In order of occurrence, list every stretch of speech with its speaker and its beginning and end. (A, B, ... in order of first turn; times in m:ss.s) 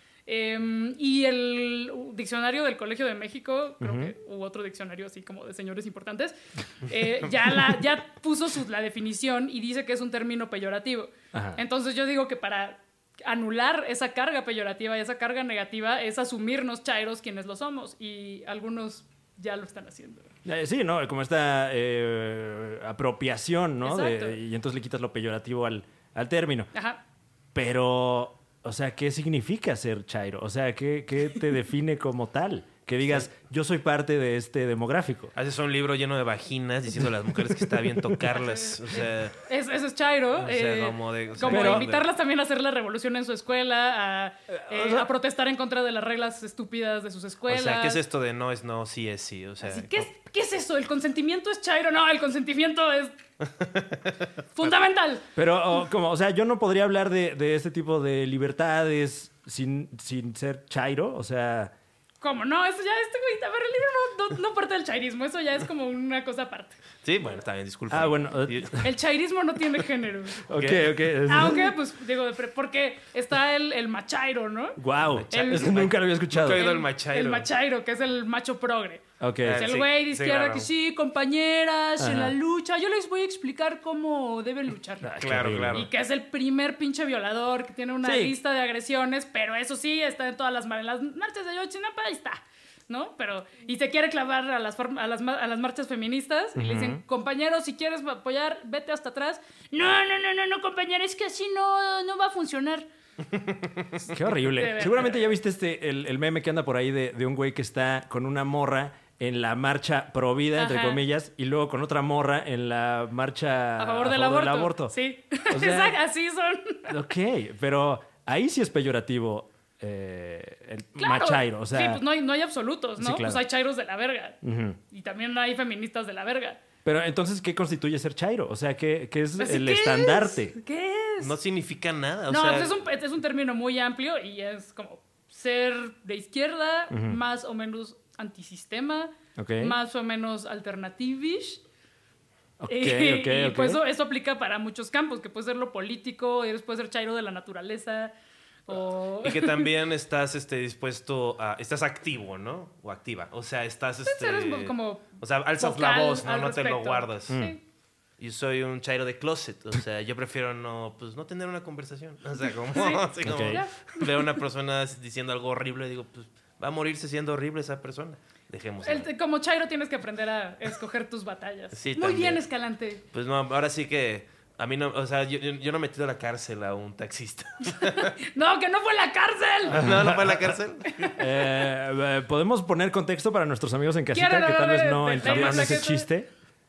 0:00.2-0:20.3 A
0:03.8-0:04.1 B
0:11.3-0:11.6 B
0:20.4-0:26.7 B
0:23.8-0:24.4 A
0:26.7-0:27.0 A
0:27.5-0:35.3 B
0:35.3-0:39.4 C
0:38.4-0:38.8 A
0:39.4-0:48.0 A
0:40.4-0:42.1 C
0:41.4-0:41.9 B
0:44.5-0:45.1 B
0:47.5-0:50.1 C
0:49.6-0:53.1 A
0:53.4-0:54.7 C
0:54.6-0:55.3 A
0:55.4-1:01.7 B
1:02.2-1:06.8 A
1:07.0-1:08.8 C
1:07.9-1:08.8 B
1:08.8-1:10.4 A
1:10.5-1:11.8 B
1:10.5-1:10.9 C
1:11.2-1:15.9 A
1:14.8-1:16.7 B
1:15.0-1:17.5 C
1:16.4-1:19.0 A
1:19.2-1:19.7 B
1:19.4-1:20.7 C
1:19.6-1:25.2 A
1:22.0-1:22.4 B
1:25.0-1:25.9 B
1:25.2-1:25.9 C
1:25.7-1:42.9 A
1:28.0-1:28.3 B
1:36.6-1:37.0 B
1:43.3-1:43.8 C
1:44.1-1:54.9 B
1:44.4-1:45.3 A
1:50.6-1:51.0 A
1:53.8-1:56.9 A
1:55.5-1:56.0 B
1:56.9-2:02.0 B
2:01.0-2:04.4 A
2:03.0-2:03.4 B
2:04.4-2:04.8 B
2:04.9-2:06.6 A
2:06.8-2:10.6 B
2:09.4-2:11.4 A
2:11.2-2:12.8 C
2:12.3-2:21.6 A
2:16.9-2:17.2 B
2:19.4-2:19.7 B
2:22.6-2:23.8 B
2:22.7-2:28.1 A
2:28.7-2:29.7 A
2:29.2-2:37.4 C
2:34.0-2:37.6 A
2:37.3-2:37.6 B
2:38.2-2:49.1 C
2:42.7-2:44.3 A
2:43.2-2:43.6 B
2:48.8-2:53.0 A
2:51.7-2:52.4 C
2:53.1-2:58.2 C
2:57.7-2:59.9 A
2:59.7-3:01.1 C
2:59.8-3:00.5 B
3:01.2-3:06.3 B
3:04.1-3:06.1 A
3:05.2-3:05.9 C